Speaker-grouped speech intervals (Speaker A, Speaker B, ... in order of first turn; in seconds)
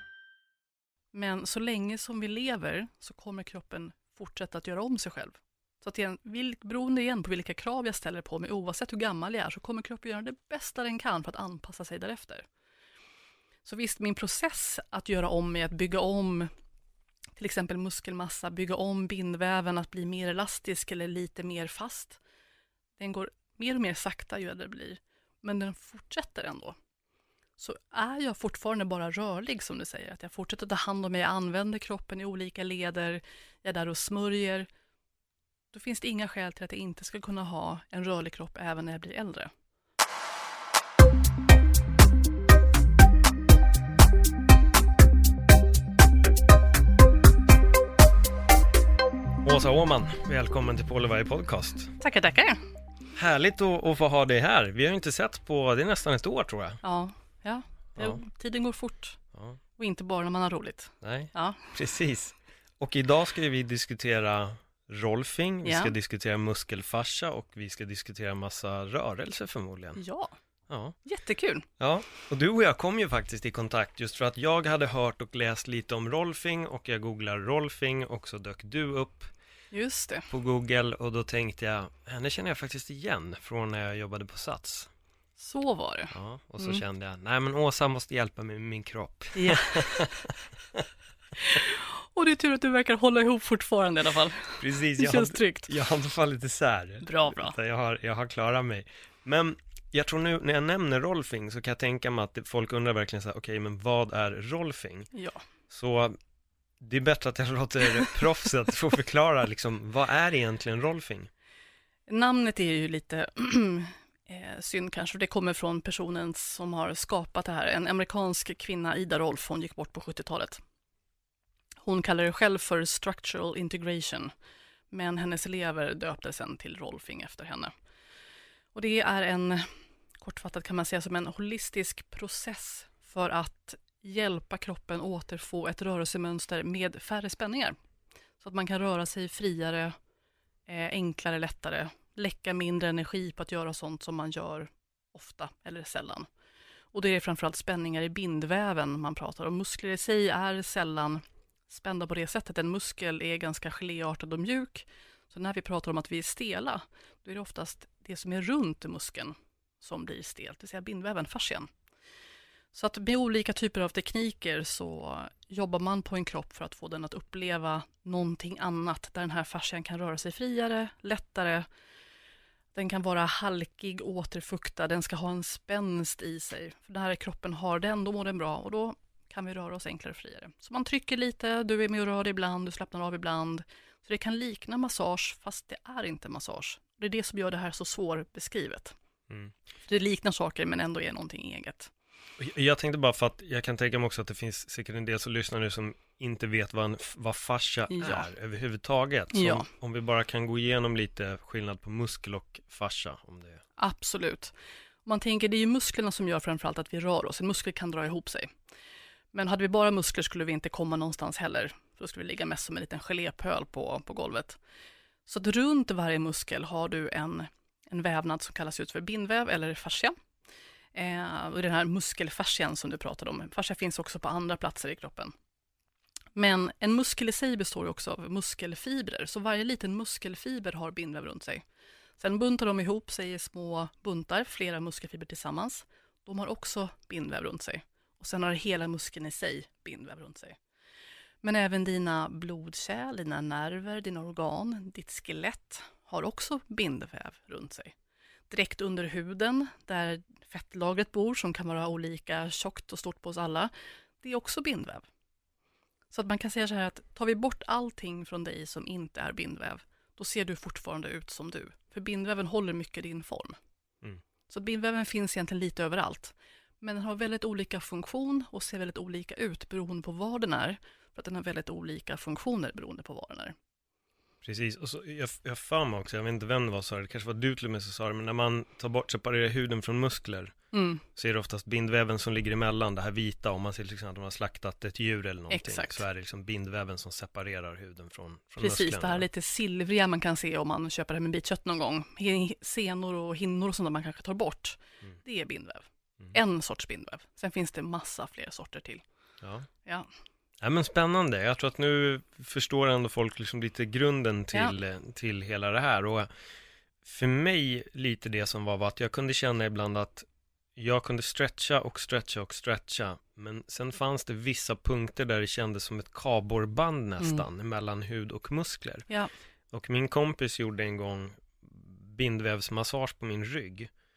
Speaker A: 1.1-12.5, 13.7-16.5, 17.4-22.2, 23.0-26.8, 27.6-34.7, 35.7-39.5, 52.0-52.6, 56.8-59.2, 59.8-61.7, 65.6-65.9, 70.0-70.3, 71.0-71.7, 79.7-80.3, 85.4-86.8, 89.3-90.3, 91.4-95.7, 97.0-97.6, 105.1-105.4, 112.1-120.6, 121.8-124.3, 124.9-127.7, 128.7-137.8, 138.4-140.0, 140.7-146.3, 146.9-161.7, 162.7-171.7, 172.8-189.0, 189.8-191.9, 197.9-198.3, 199.3-199.7, 203.8-208.6, 209.3-214.6, 215.3-220.2, 220.9-225.3, 226.4-231.6, 232.2-240.6, 241.4-247.9, 248.5-255.1, 256.1-263.6, 264.5-273.6, 280.7-281.0, 285.5-286.0, 288.6-299.0
Speaker B: 49.4-52.0, 53.1-56.8, 61.0-70.0, 70.7-71.0, 71.8-79.3, 80.3-84.9, 86.1-90.8, 94.6-105.1, 105.7-106.2, 106.8-111.3, 189.3-189.5, 192.4-203.6, 274.4-280.6, 281.1-289.3, 299.4-299.7, 300.6-306.3, 307.0-319.1, 319.7-323.9